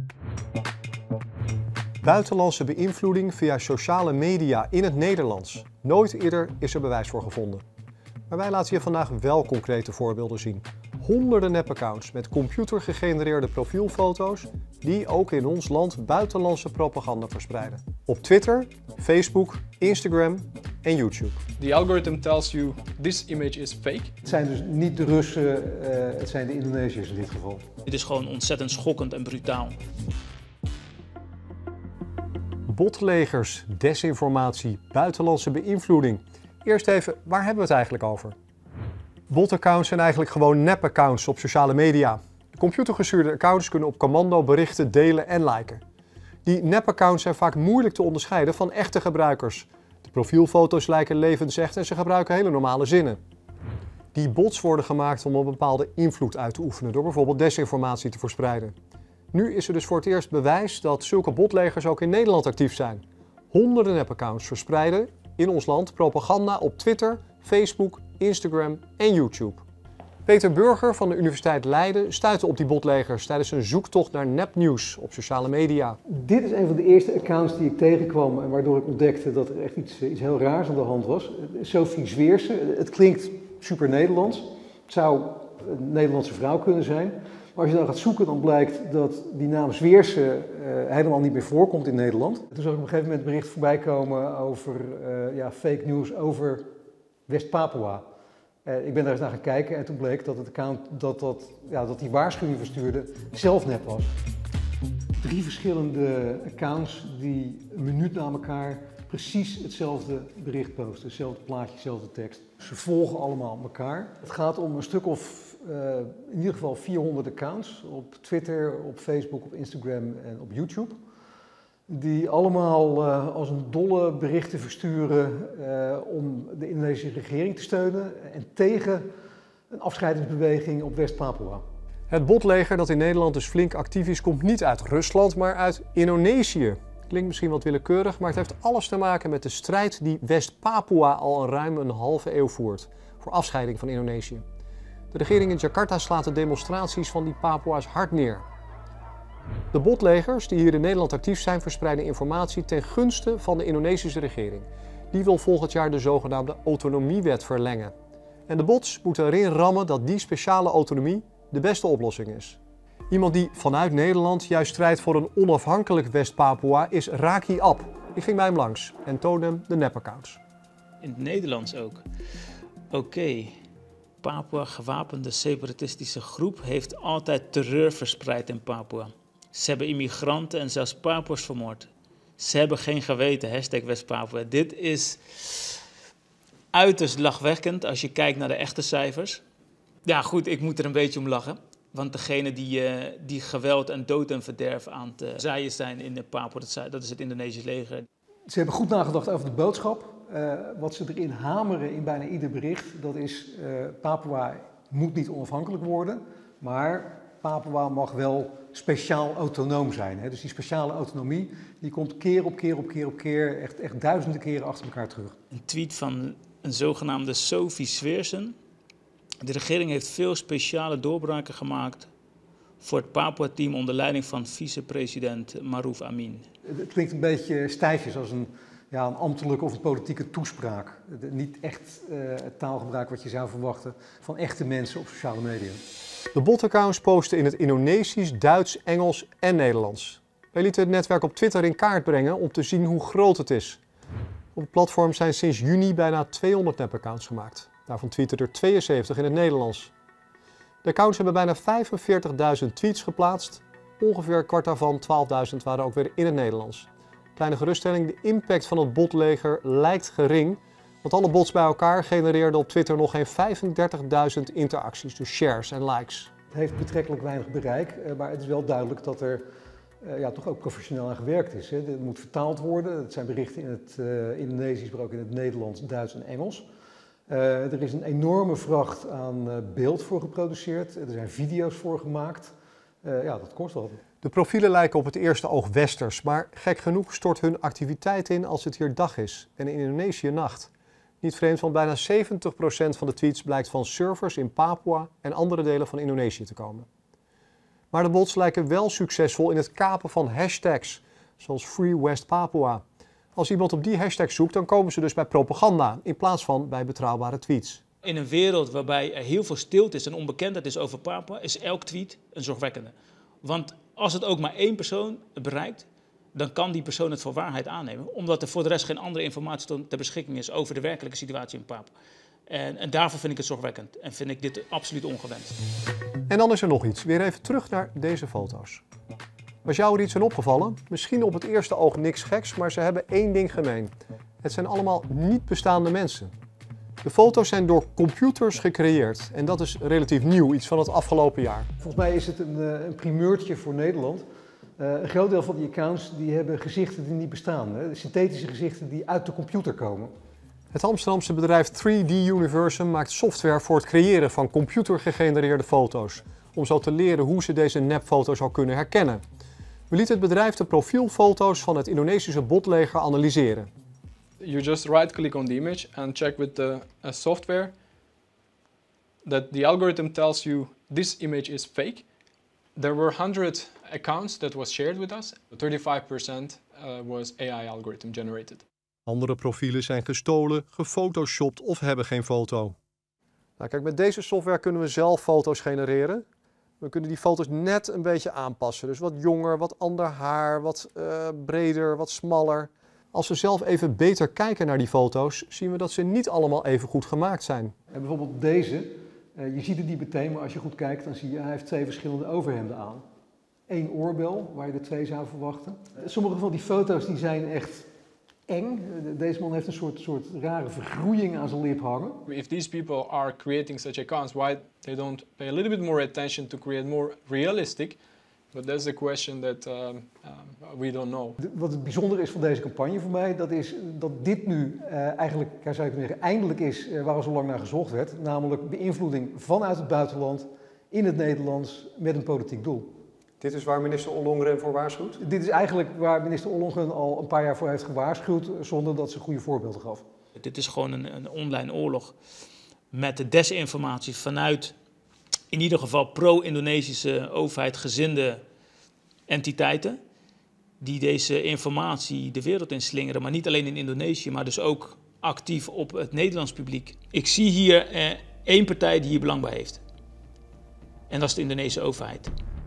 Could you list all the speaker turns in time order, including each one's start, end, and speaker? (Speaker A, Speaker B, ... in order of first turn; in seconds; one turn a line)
Speaker A: 2.0-7.6
Speaker A: 8.3-21.4
Speaker B: 21.6-24.1
Speaker C: 24.2-27.6
Speaker D: 27.9-29.8
Speaker A: 32.7-38.4
Speaker A: 39.3-45.8
Speaker A: 46.5-53.2
Speaker A: 54.1-58.7
Speaker A: 59.3-69.6
Speaker A: 70.3-76.0
Speaker C: 76.1-96.7
Speaker C: 97.3-98.0
Speaker C: 98.7-104.1
Speaker C: 105.2-121.0
Speaker C: 121.9-129.1
Speaker C: 129.7-131.6
Speaker A: 132.1-144.4
Speaker A: 145.1-148.4
Speaker A: 149.7-157.9
Speaker A: 158.5-162.6
Speaker A: 163.1-170.4
Speaker D: 171.0-172.0
Speaker D: 172.9-173.5
Speaker D: 174.2-185.8
Speaker D: 186.7-189.4
Speaker D: 190.1-198.1
Speaker C: 198.5-215.3
Speaker D: 215.5-218.6
Speaker D: 219.4-222.1
Speaker D: 222.8-226.4
Speaker C: 226.7-235.8
Speaker A: 236.3-243.8
Speaker A: 244.6-249.9
Speaker A: 250.8-266.3
Speaker C: 266.5-269.4
Speaker C: 270.0-276.7
Speaker C: 277.3-284.0
Speaker A: 284.2-290.7
Speaker A: 291.2-296.9
Speaker A: 297.9-302.8
Speaker A: 303.4-307.8
Speaker D: 308.0-321.9
Speaker D: 322.5-325.6
Speaker A: 326.3-328.8
Speaker A: 329.6-333.9
Speaker A: 334.4-336.3
Speaker A: 337.0-341.7
Speaker C: 341.8-344.2
Speaker C: 344.8-350.1
Speaker A: 350.7-359.2
Speaker A: 359.9-363.7
Speaker B: 364.4-367.8
Speaker B: 369.2-372.1
Speaker B: 372.8-378.6
Speaker A: 379.1-382.8
Speaker A: 383.6-386.2
Speaker A: 386.8-397.7
Speaker C: 397.9-403.0
Speaker C: 403.7-407.9
Speaker C: 408.5-412.2
Speaker B: 412.3-418.0
Speaker B: 418.5-421.4
Speaker C: 421.4-432.9
Speaker A: 433.4-435.2
Speaker C: 435.2-440.0
Speaker D: 440.4-442.2
Speaker D: 442.9-444.7
Speaker D: 445.5-448.4
Speaker D: 449.3-450.0
Speaker D: 450.8-459.8
Speaker D: 461.1-462.3